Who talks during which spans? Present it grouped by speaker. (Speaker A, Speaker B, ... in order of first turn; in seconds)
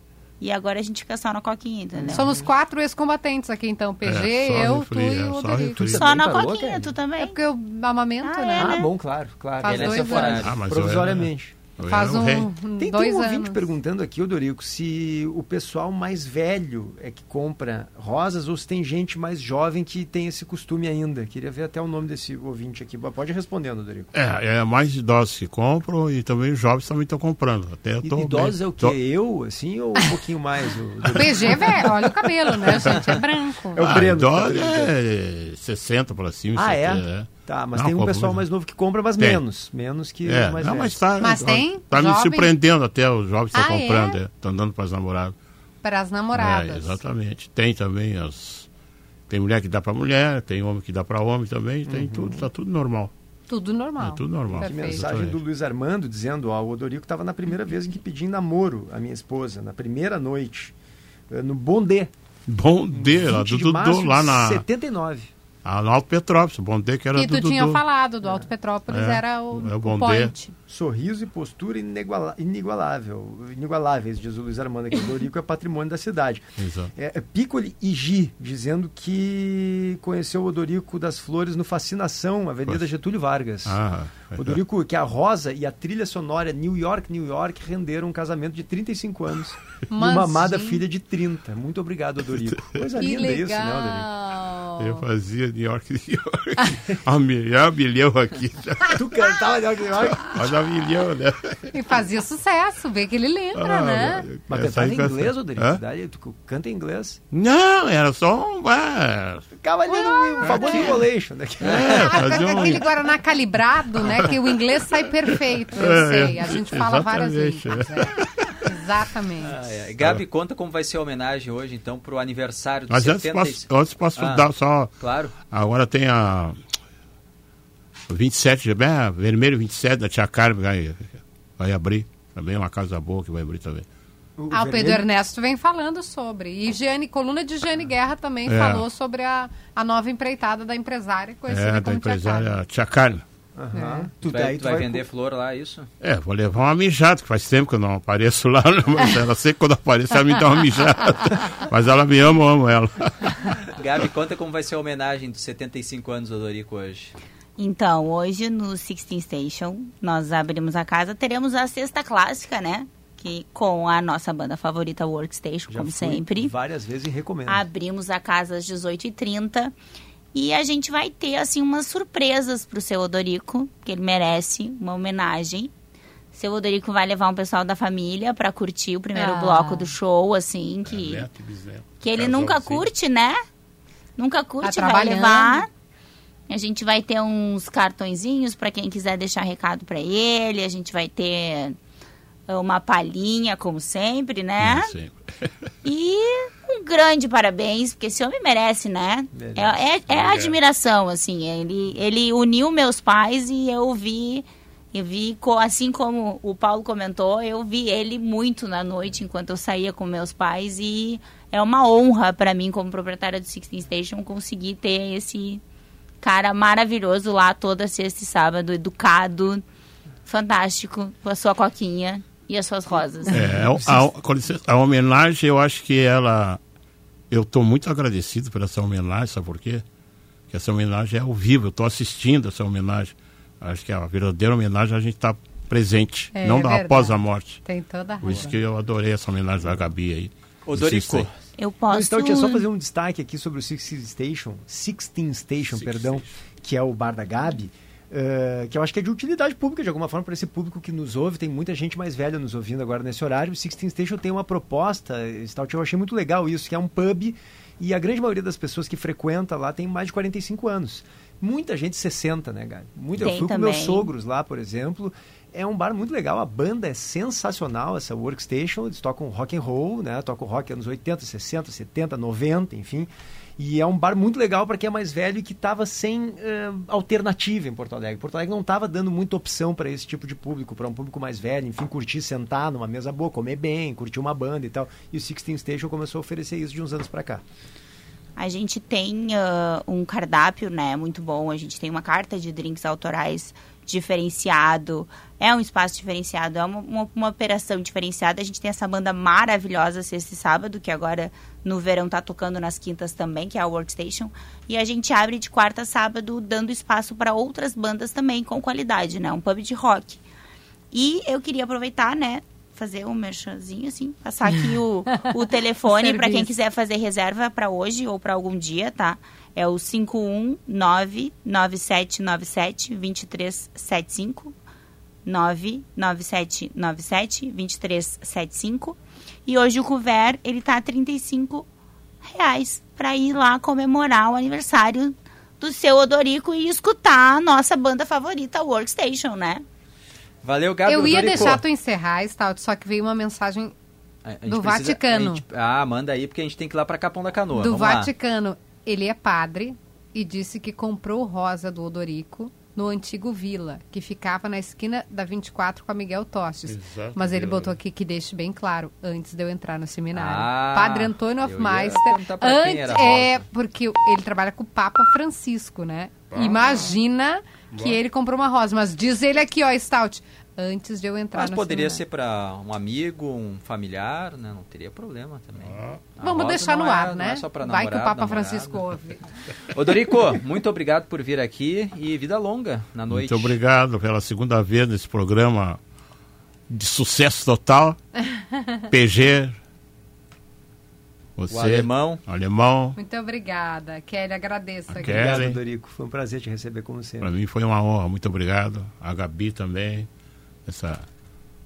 Speaker A: 0.4-2.3, 5.9-7.4, 8.2-8.9, 157.6-166.5, 167.5-169.8, 170.3-175.7, 176.3-181.3, 182.0-183.4, 184.2-185.7, 186.5-191.8, 192.5-194.9, 195.8-215.6, 216.2-219.6, 220.3-223.5, 241.6-242.7, 263.2-264.1, 288.4-310.2, 310.9-324.5, 325.2-331.7, 332.2-339.6
Speaker B: 1.9-2.5, 5.8-6.9, 8.5-11.6, 12.8-24.1, 28.0-33.0, 33.7-34.9, 36.5-41.0, 51.9-52.5, 54.5-60.7, 61.3-62.1, 62.9-65.3, 70.7-76.4, 77.0-83.8, 84.4-94.1, 98.9-100.5, 104.5-107.2, 109.6-112.4, 134.4-135.1, 143.6-145.1, 165.7-167.7, 199.3-199.8, 223.5-224.1, 241.9-287.4, 395.0-397.3
Speaker C: 2.1-5.9, 7.2-8.8, 9.6-10.5, 11.8-13.7, 31.1-33.9, 41.2-42.5, 43.5-44.2, 45.8-47.0, 53.5-55.0, 67.2-70.5, 89.9-90.8, 93.0-95.0, 101.7-104.3, 109.9-111.0, 111.7-119.6, 134.5-142.6, 143.7-144.1, 179.2-179.9, 184.6-185.7, 236.3-238.5, 315.9-316.5, 340.9-343.7, 344.5-345.4, 347.5-372.0, 376.2-379.2, 393.0-395.4
Speaker D: 4.0-6.0, 10.4-12.5, 24.1-29.0, 33.8-38.4, 40.2-45.4, 46.3-48.7, 49.3-53.1, 54.0-55.4, 62.5-64.7, 65.6-67.8, 68.9-70.3, 76.6-76.9, 83.7-84.6, 92.4-92.8, 94.8-99.3, 100.1-101.7, 103.5-105.8, 107.3-109.5, 110.5-110.8, 111.6-112.9, 114.0-114.6, 115.3-118.7, 122.9-124.9, 125.5-126.6, 128.1-133.9, 138.4-138.9, 141.5-143.2, 146.0-153.5, 180.8-182.9, 194.6-195.5, 200.1-200.6, 223.3-226.6, 227.3-229.8, 230.5-237.6, 238.2-241.3, 245.7-246.3, 356.6-357.8, 366.3-367.0, 367.7-368.0, 375.6-376.1, 383.1-385.8, 386.7-388.0, 388.9-389.6, 391.4-393.0, 394.9-395.6, 397.2-400.1, 400.7-401.1
Speaker E: 9.6-10.6, 119.4-124.5, 125.0-125.3, 144.2-145.9, 153.7-157.1, 240.7-241.3, 340.4-341.6, 344.2-348.1, 360.1-363.4, 371.3-378.9, 379.7-383.6, 391.5-392.2